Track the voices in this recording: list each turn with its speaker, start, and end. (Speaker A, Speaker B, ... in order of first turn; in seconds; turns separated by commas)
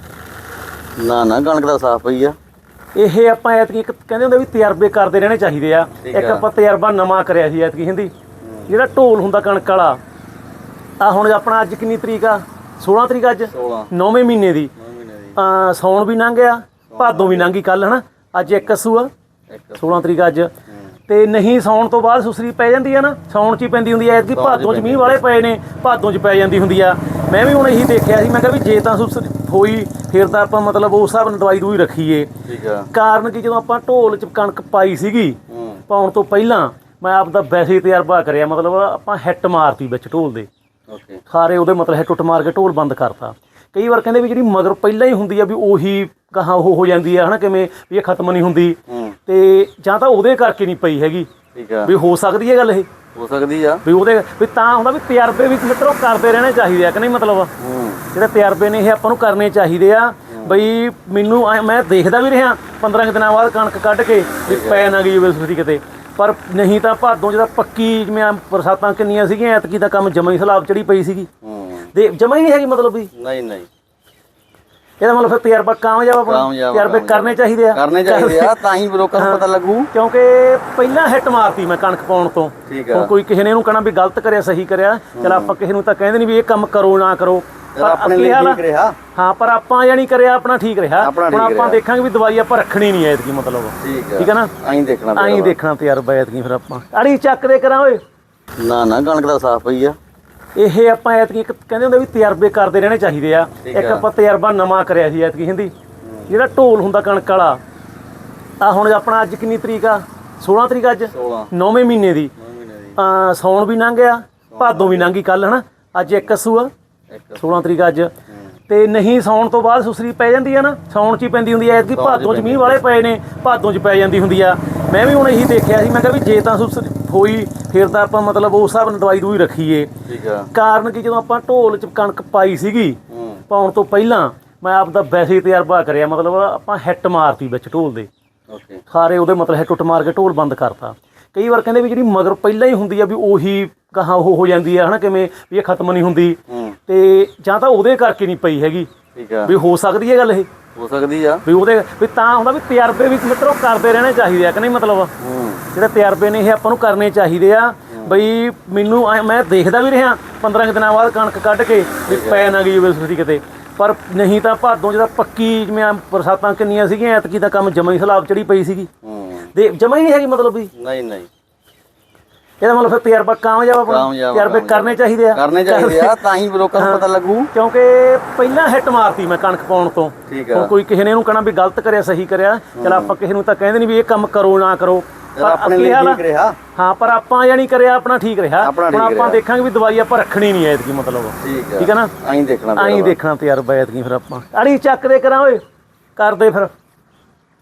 Speaker A: 1.0-2.4, Speaker B: 3.0-8.1, Speaker A: 6.0-6.5, Speaker A: 8.4-8.7, Speaker B: 8.7-10.0, Speaker B: 11.0-14.7, Speaker A: 13.5-13.9, Speaker A: 14.8-15.4, Speaker B: 15.3-19.1, Speaker A: 16.9-17.5, Speaker A: 19.5-20.0, Speaker B: 19.8-20.5, Speaker B: 21.1-32.3, Speaker A: 24.3-25.2, Speaker A: 32.4-32.9, Speaker B: 32.9-40.5, Speaker A: 35.5-35.8, Speaker A: 40.9-41.2, Speaker B: 41.3-51.3, Speaker A: 48.9-49.1, Speaker A: 51.5-51.9, Speaker B: 51.8-52.9, Speaker A: 53.1-53.8, Speaker B: 53.8-57.5, Speaker A: 57.6-58.0, Speaker B: 58.1-71.3, Speaker A: 60.3-60.6, Speaker A: 64.5-64.8, Speaker A: 71.4-71.9, Speaker B: 71.9-73.1, Speaker A: 73.1-73.7, Speaker B: 75.0-78.6, Speaker A: 76.2-79.9, Speaker B: 79.2-88.6, Speaker A: 82.7-83.1, Speaker A: 85.1-85.5, Speaker A: 87.7-89.0, Speaker B: 89.1-94.5, Speaker A: 91.0-91.8, Speaker A: 93.8-95.6, Speaker B: 95.1-98.0, Speaker A: 98.6-100.0, Speaker B: 100.5-105.7, Speaker A: 103.6-104.0, Speaker A: 106.0-106.3, Speaker B: 106.3-107.6, Speaker B: 108.6-112.3, Speaker A: 111.1-111.5, Speaker A: 112.4-113.0, Speaker B: 113.0-116.7, Speaker A: 114.5-115.1, Speaker A: 117.1-117.5, Speaker B: 117.3-118.1, Speaker B: 118.7-129.9, Speaker A: 121.9-122.8, Speaker A: 130.1-130.5, Speaker B: 130.5-138.1, Speaker A: 133.1-133.4, Speaker A: 138.5-138.8, Speaker B: 138.9-148.9, Speaker A: 146.5-146.8, Speaker A: 149.2-149.5, Speaker B: 149.4-150.5, Speaker A: 150.8-151.4, Speaker B: 151.4-155.1, Speaker A: 155.2-155.7, Speaker B: 155.7-168.9, Speaker A: 157.9-158.2, Speaker A: 162.1-162.5, Speaker A: 169.0-169.5, Speaker B: 169.5-170.7, Speaker A: 170.7-171.3, Speaker B: 172.6-176.1, Speaker A: 173.8-177.5, Speaker B: 176.8-186.2, Speaker A: 180.3-180.7, Speaker A: 182.8-183.2, Speaker A: 185.3-186.6, Speaker B: 186.8-192.1, Speaker A: 188.6-189.4, Speaker A: 191.4-193.2, Speaker B: 192.7-195.6, Speaker B: 196.2-196.7